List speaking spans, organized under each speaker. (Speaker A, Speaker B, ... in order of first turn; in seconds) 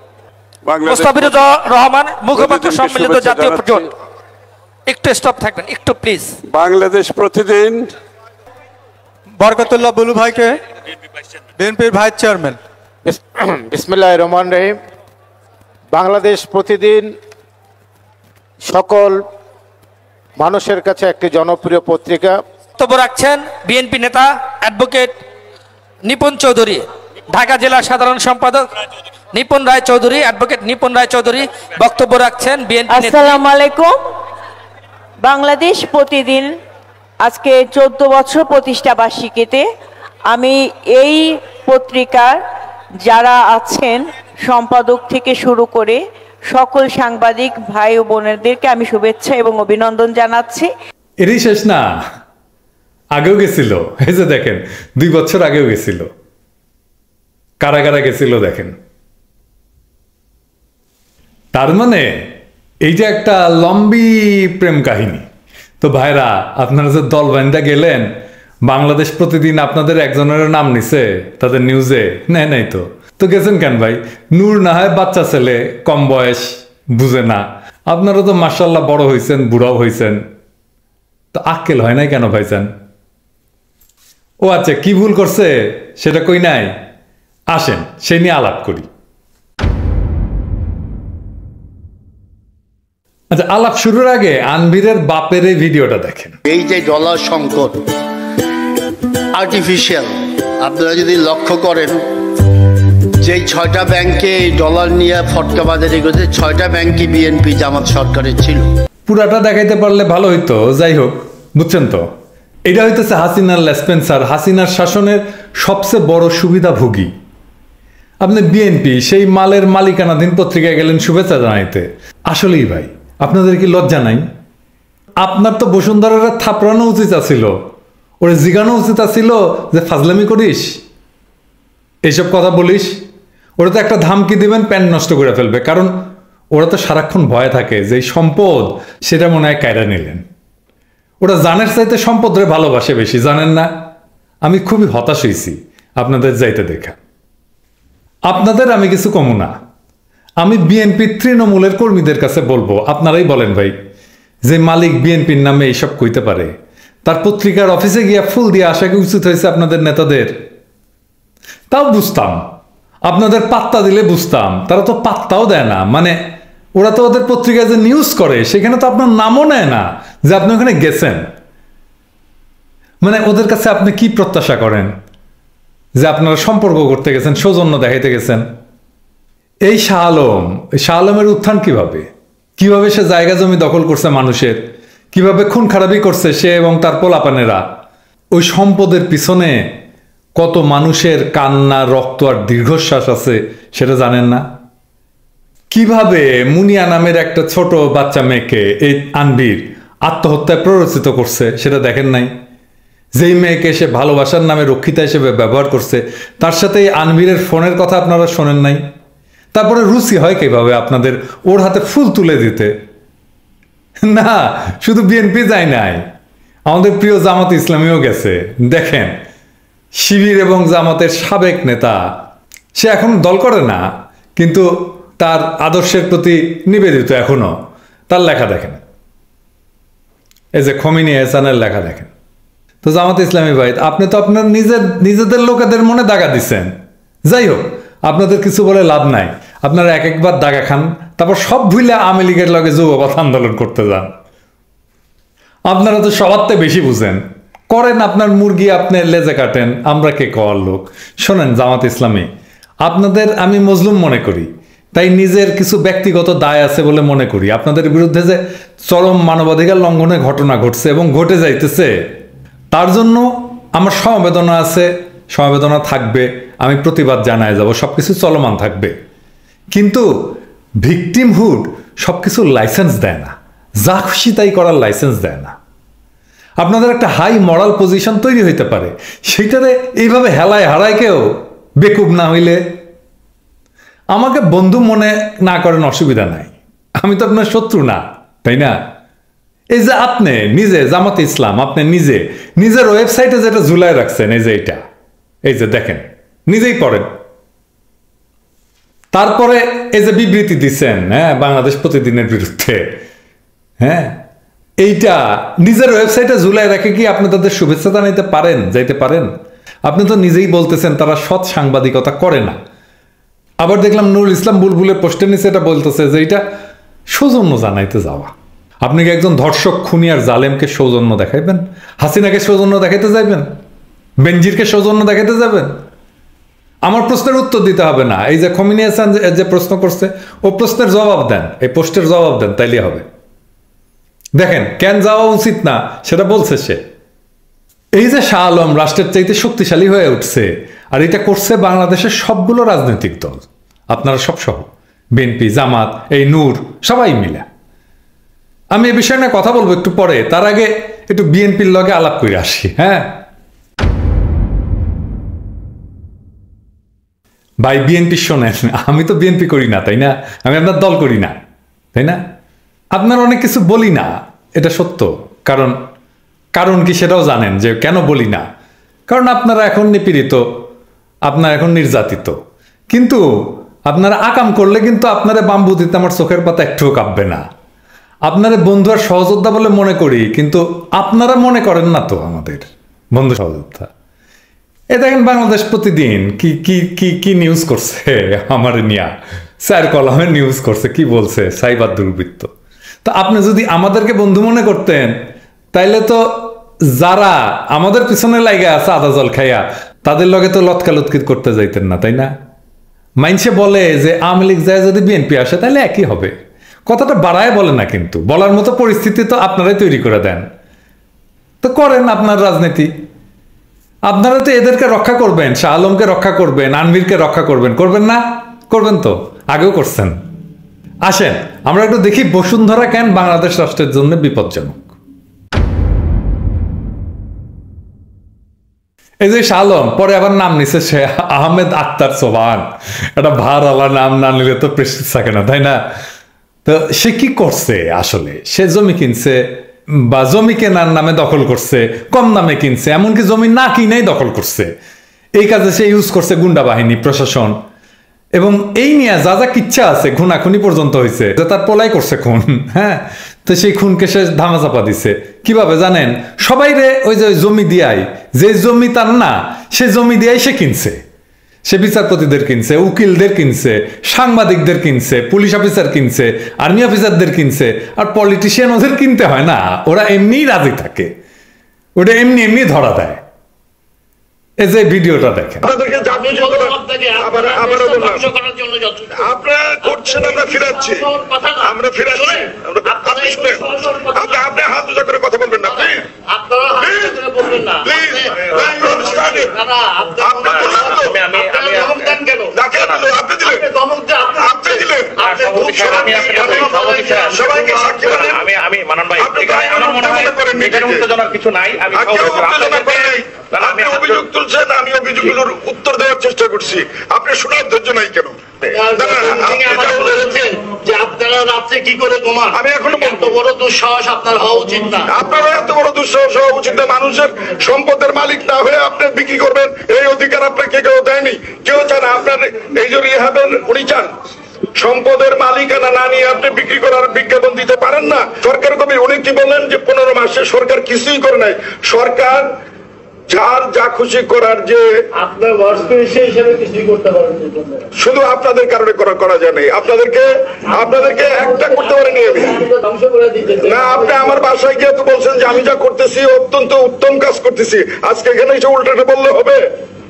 Speaker A: 0.6-1.4, 2.3-3.9, 6.5-7.9
Speaker B: 0.8-3.9, 4.9-6.3, 22.8-25.2, 26.0-28.7, 29.3-33.4
Speaker C: 9.3-10.6, 11.6-12.6
Speaker D: 13.0-14.8, 15.9-17.1, 18.6-19.2, 20.4-22.4
Speaker E: 32.9-33.9, 35.2-36.5, 37.2-39.6, 40.3-42.4, 43.0-50.7
Speaker F: 51.2-52.0, 53.1-56.1, 57.6-58.7, 61.5-62.3, 62.8-65.2, 65.8-68.1, 68.6-80.2, 81.3-82.7, 84.4-86.7, 87.5-88.9, 93.3-96.4, 109.1-112.1, 112.7-117.1, 118.2-124.2, 125.2-127.6, 128.2-130.7, 132.0-132.9, 133.6-140.2, 141.2-143.7, 144.4-147.0, 148.2-149.5, 150.4-153.7, 154.4-156.5, 157.0-160.4, 161.7-162.4, 163.0-166.2, 166.7-171.3, 173.0-174.9, 176.0-178.4, 179.7-182.1, 182.6-184.6, 185.1-187.6, 188.3-189.7, 190.4-194.4, 195.7-202.3, 203.2-208.8, 209.5-212.7, 214.0-216.0, 216.7-219.2, 220.0-222.0, 222.8-227.6, 228.1-228.8, 230.5-232.1, 232.8-236.7, 237.3-244.1, 245.7-252.3, 252.8-261.9, 262.7-268.9, 269.7-270.1, 270.8-275.5, 276.6-281.2, 281.8-282.6, 284.1-288.8, 289.7-294.8, 295.4-297.1, 299.1-302.9, 303.8-304.2, 304.8-309.3, 309.8-312.6, 313.6-316.4, 317.1-318.3, 318.8-323.5, 324.2-325.8, 326.8-333.1, 334.4-336.8, 337.9-347.4, 348.7-353.1, 357.6-361.4, 362.9-365.8, 366.5-368.4, 369.1-370.4, 371.2-372.4, 372.9-373.2, 373.9-377.4, 378.2-383.9, 384.9-392.5, 393.0-402.3, 403.2-406.3, 406.9-410.4, 411.6-412.9, 414.1-420.2, 421.0-424.9, 429.2-435.8, 436.6-444.7, 445.3-447.6, 448.3-461.0, 461.6-471.1, 472.0-473.2, 474.6-475.7
Speaker G: 96.5-97.9, 99.3-102.0, 103.2-108.7
Speaker H: 475.6-478.3, 479.2-481.1, 481.6-486.0, 486.8-489.5, 490.2-491.2, 492.5-493.6, 494.4-498.4, 499.2-501.1, 501.9-508.4, 509.0-510.3, 512.5-513.4, 515.1-524.1, 524.8-532.5, 533.3-534.9, 538.0-542.6, 543.6-549.6
Speaker I: 475.9-479.3, 479.8-484.5, 485.7-492.5, 493.4-498.2, 508.7-515.1, 535.2-537.8, 540.7-544.5
Speaker J: 490.5-492.2, 492.7-493.1, 495.2-504.2